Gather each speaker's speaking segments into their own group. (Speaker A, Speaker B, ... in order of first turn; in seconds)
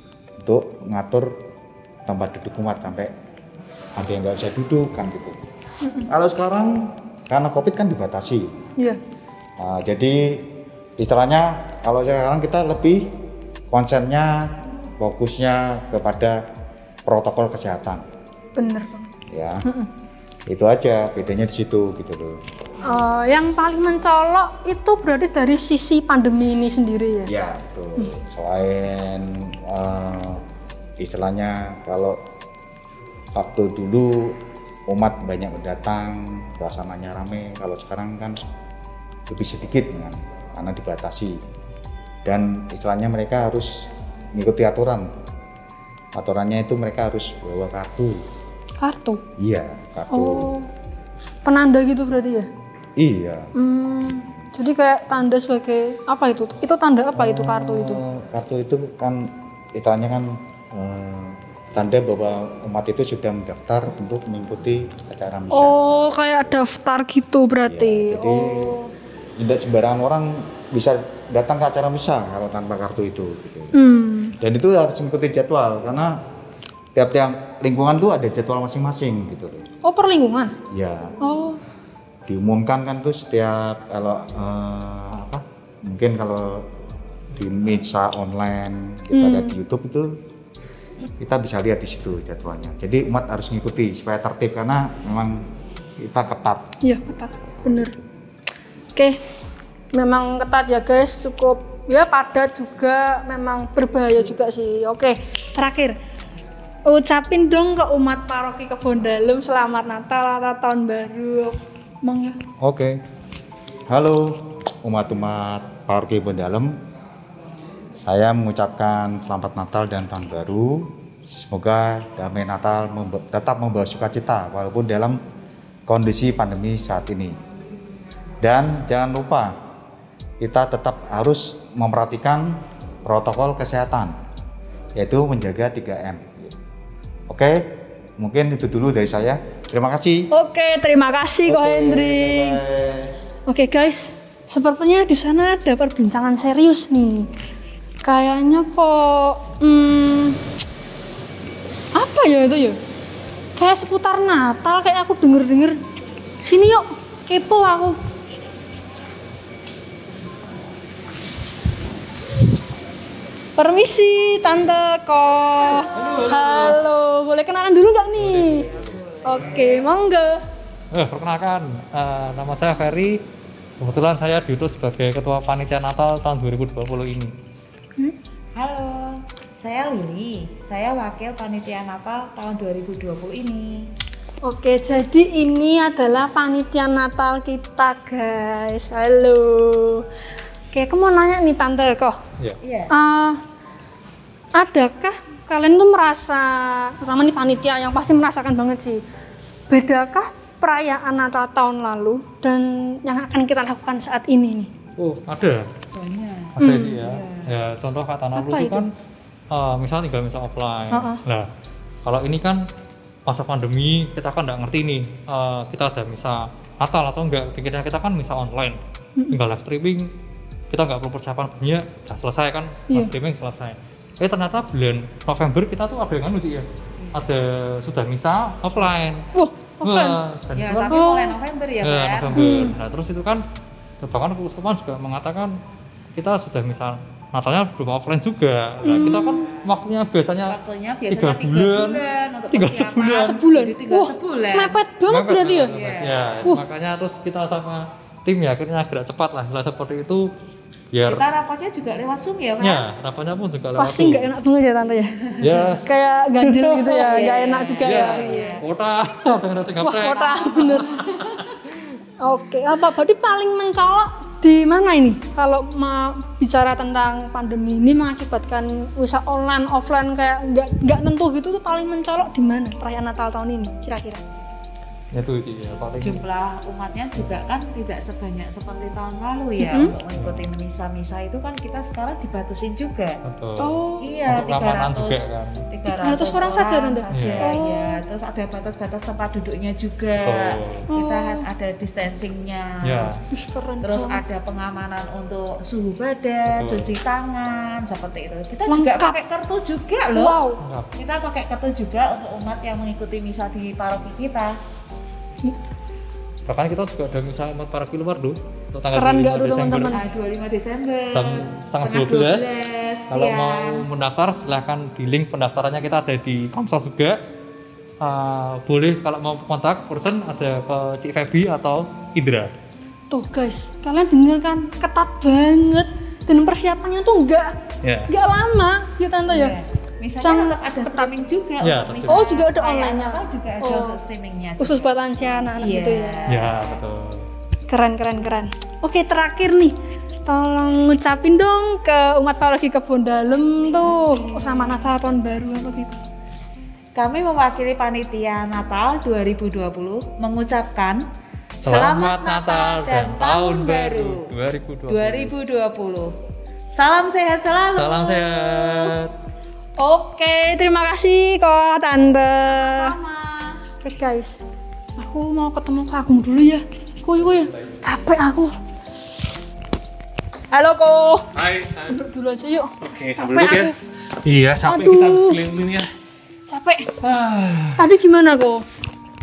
Speaker A: 0.4-1.3, 2.0-3.1, 4.0-5.4, 6.1-6.7, 7.3-8.5, 9.6-10.4, 11.0-13.1, 13.7-14.5, 15.0-16.4, 17.1-18.0, 19.3-19.6, 20.5-22.4, 27.3-30.4, 31.0-32.2, 33.3-34.4, 34.9-38.4, 39.3-41.4, 42.2-45.1, 46.1-48.2, 49.4-50.5, 53.0-53.5, 57.1-66.2, 67.7-68.8, 69.4-73.7, 74.4-76.1, 76.9-79.7, 80.7-81.2, 82.3-86.6, 87.3-90.1, 91.2-95.5, 96.0-96.6, 112.6-113.0, 113.9-116.7, 118.0-125.2, 125.9-127.4, 128.4-129.6, 130.4-134.1, 135.0-136.5, 137.3-137.6, 138.2-140.3, 141.4-143.1
Speaker B: 18.6-19.1, 22.8-27.3, 48.8-49.2, 50.1-50.7, 51.4-52.5, 53.5-58.0, 65.5-68.9, 73.7-74.3, 79.8-80.5, 81.2-81.6, 89.1-89.5, 96.8-97.9, 99.9-106.0, 106.9-112.4, 140.3-142.6, 143.5-147.3, 148.0-150.4, 151.9-152.8, 153.6-155.8, 156.4-158.0, 163.6-168.7, 169.2-170.4, 184.4-190.0, 190.7-192.2, 192.9-193.4, 194.6-199.0, 199.7-204.7, 206.6-207.0, 208.3-208.9, 210.9-211.2, 229.3-230.2, 230.9-231.2, 232.3-232.8, 238.8-239.5, 243.3-245.7, 253.8-255.2, 255.7-258.6, 259.8-261.0, 262.2-274.2, 279.6-280.0, 283.6-284.2, 285.9-288.0, 290.9-291.4, 293.3-294.2, 298.7-299.2, 300.1-300.6, 308.9-310.0, 323.1-327.5, 328.1-329.6, 330.2-331.1, 332.1-334.0, 334.6-336.2, 337.7-339.7, 340.3-346.0, 359.8-362.9, 363.8-364.4, 365.0-368.5, 370.5-371.3, 371.9-373.7, 374.6-375.4, 376.5-376.9, 377.8-378.6
Speaker C: 165.9-166.8, 170.9-173.2, 173.8-177.3, 205.0-205.7, 206.6-208.9, 209.5-211.5, 212.0-212.6, 213.2-218.8, 219.3-220.1, 220.7-229.2, 229.8-233.4, 234.0-235.5, 236.2-240.6, 241.1-243.4, 245.1-250.2, 250.9-251.2, 252.6-254.3, 255.4-255.9, 257.8-261.4, 275.1-276.2, 280.1-280.5, 283.2-285.6, 287.1-287.5, 290.2-290.8, 292.9-293.1, 296.5-296.9, 300.6-300.9, 306.4-310.0, 311.1-312.6, 313.1-317.2, 318.0-322.5, 331.6-332.5, 336.3-337.2, 351.6-355.3, 357.7-359.1
Speaker D: 168.9-169.8, 178.6-183.8, 192.6-192.9, 205.9-207.5, 230.5-232.5, 240.5-244.7, 245.7-246.5, 251.0-252.8, 255.3-255.7, 256.4-258.6, 276.0-283.2, 284.0-293.1, 293.8-300.4, 300.9-304.5, 309.9-313.8, 329.3-334.9, 335.5-336.8, 343.8-344.8, 346.9-351.0, 351.6-354.3, 354.9-356.1, 356.7-358.9, 362.5-363.6
Speaker E: 371.3-372.0, 372.8-373.7, 374.2-375.9, 377.0-377.8